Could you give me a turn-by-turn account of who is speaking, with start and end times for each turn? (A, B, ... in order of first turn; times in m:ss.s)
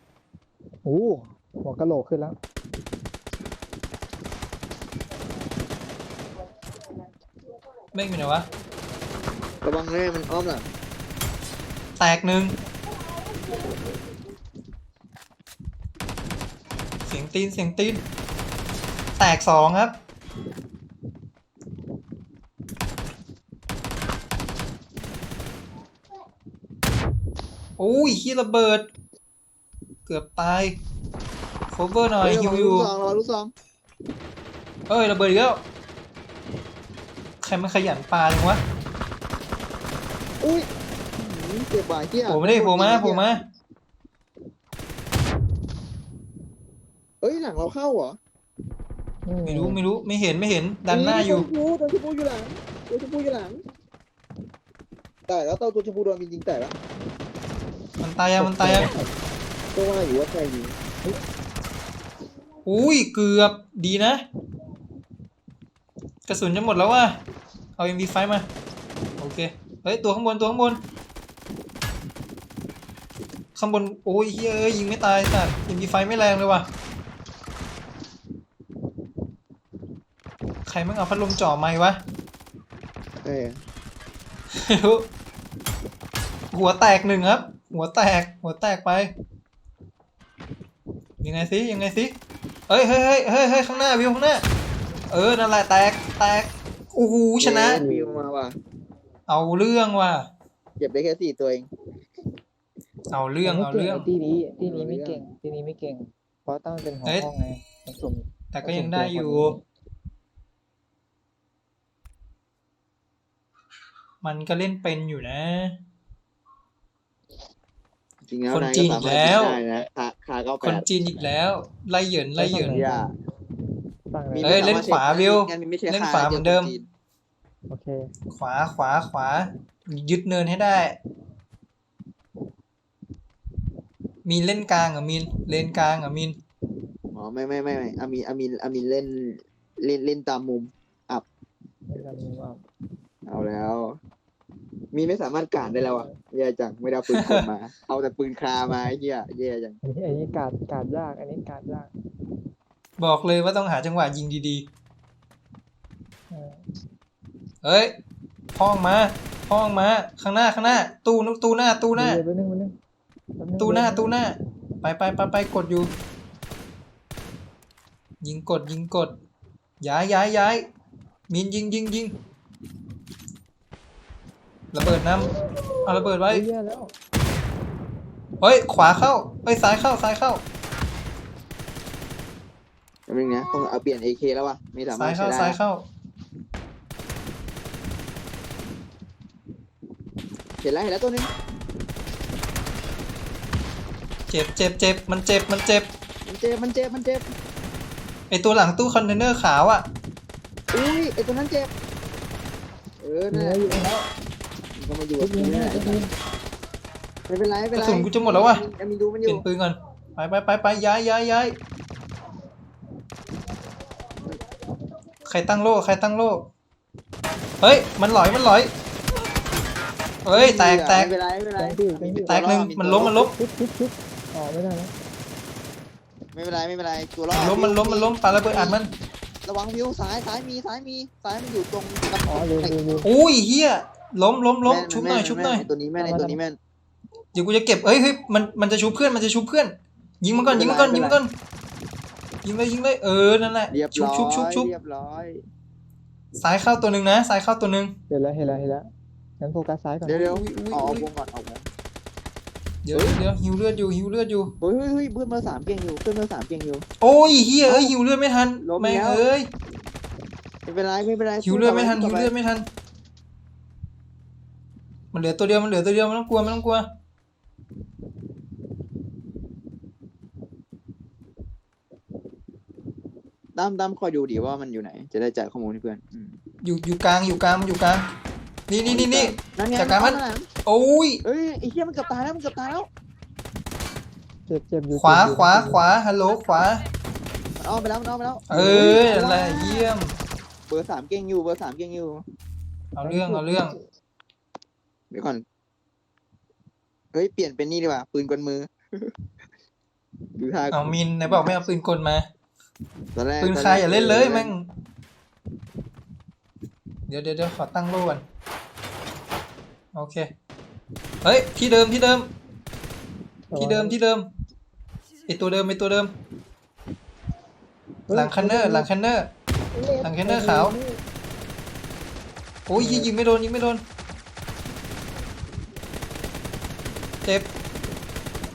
0:00.8-0:02.4 A
0:07.9-0:08.4 B
0:09.6-0:10.7 C
0:12.0-0:12.5 B
0:17.0-0:18.0 B
0:19.2-0:19.9 B
0:27.8-0:28.9 B
0:30.0-0:30.8 B
0:31.7-0:32.9 B
0:32.2-0:33.5 C
0:34.9-0:35.6 B
0:37.4-0:38.6 B
0:40.4-0:43.2 C
0:42.3-0:43.4 B
0:47.2-0:48.2 C
0:49.2-0:49.8 A
0:49.4-0:51.5 B
0:50.9-0:53.6 C
0:55.3-0:56.8 C
0:58.0-0:58.9 B
0:58.4-0:59.1 A
0:59.8-1:00.8 C
1:02.6-1:04.2 B
1:06.2-1:07.2 B
1:07.8-1:08.5 B
1:09.2-1:10.8 B
1:13.5-1:16.7 B
1:20.6-1:22.0 B
1:23.2-1:23.6 C
1:24.6-1:25.1 B
1:26.5-1:29.1 B
1:31.2-1:32.2 B
1:32.7-1:34.4 B
1:35.1-1:37.8 B
1:37.4-1:38.5 C
1:37.7-1:38.2 A
1:39.3-1:40.3 B
1:40.8-1:41.7 C
1:43.1-1:44.1 B
1:43.4-1:49.6 A
1:44.7-1:45.2 C
1:47.0-1:47.3 B
1:48.5-1:49.5 B
1:54.2-1:55.7 B
1:58.3-2:00.9 C
1:58.5-1:59.6 B
2:00.6-2:02.8 B
2:02.3-2:03.1 A
2:02.6-2:03.1 C
2:04.1-2:04.6 A
2:04.3-2:06.9 C
2:04.4-2:06.7 B
2:07.7-2:08.0 A
2:08.3-2:11.0 B
2:14.2-2:16.4 B
2:17.1-2:21.2 C
2:21.9-2:22.6 A
2:23.3-2:24.0 C
2:24.9-2:29.8 C
2:25.6-2:26.2 A
2:27.1-2:27.5 B
2:29.8-2:31.9 A
2:33.0-2:34.6 B
2:36.3-2:36.6 A
2:37.6-2:38.0 B
2:38.5-2:42.2 B
2:41.9-2:42.7 A
2:43.4-2:44.1 A
2:43.6-2:45.9 B
2:48.2-2:49.1 B
2:49.8-2:50.7 B
2:51.3-2:52.1 B
2:54.7-2:55.3 B
2:55.8-2:56.4 B
2:56.3-2:56.9 A
2:58.4-3:00.4 B
3:03.1-3:05.6 C
3:04.9-3:05.8 B
3:10.6-3:11.3 C
3:14.3-3:15.9 B
3:16.2-3:17.2 C
3:18.3-3:19.8 B
3:20.7-3:21.7 C
3:23.0-3:23.8 C
3:23.3-3:24.0 A
3:24.8-3:26.0 C
3:25.2-3:26.1 A
3:27.3-3:29.4 C
3:27.7-3:28.6 B
3:29.2-3:31.6 B
3:35.2-3:36.5 B
3:37.6-3:38.7 B
3:40.2-3:41.1 B
3:40.3-3:43.3 C
3:41.6-3:42.4 A
3:42.2-3:43.3 B
3:43.2-3:44.9 A
3:46.3-3:48.8 C
3:47.3-3:48.9 B
3:49.4-3:52.8 C
3:52.3-3:53.1 A
3:53.0-3:55.6 B
3:54.6-3:56.6 C
3:56.0-3:56.4 A
3:57.3-4:01.3 B
4:00.4-4:01.2 C
4:02.4-4:04.7 B
4:03.7-4:05.4 C
4:06.4-4:07.9 B
4:08.1-4:08.9 A
4:09.4-4:10.4 A
4:10.0-4:11.6 C
4:10.4-4:11.1 B
4:12.8-4:14.5 B
4:12.9-4:13.2 C
4:14.6-4:16.8 C
4:17.0-4:19.5 B
4:17.7-4:17.9 C
4:18.6-4:19.2 C
4:20.6-4:22.3 C
4:21.4-4:22.6 B
4:25.1-4:26.8 B
4:33.5-4:36.4 C
4:36.6-4:38.1 B
4:38.7-4:41.2 B
4:38.8-4:40.5 C
4:41.2-4:42.9 C
4:44.5-4:45.8 A
4:44.9-4:46.8 B
4:47.6-4:49.9 C
4:48.5-4:50.2 B
4:50.7-4:52.2 C
4:52.9-4:53.7 B
4:53.0-4:53.8 A
4:55.1-4:55.4 C
4:57.1-4:58.7 C
5:00.4-5:01.7 C
5:00.7-5:02.2 B
5:03.2-5:04.5 C
5:03.4-5:04.7 B
5:07.1-5:08.2 B
5:09.9-5:10.3 B
5:11.2-5:12.3 B
5:13.5-5:14.0 A
5:13.5-5:14.3 B
5:15.3-5:16.1 B
5:18.1-5:18.9 A
5:18.1-5:19.3 B
5:19.7-5:21.0 A
5:20.0-5:20.7 B
5:22.7-5:23.8 B
5:22.8-5:23.1 A
5:27.2-5:27.5 B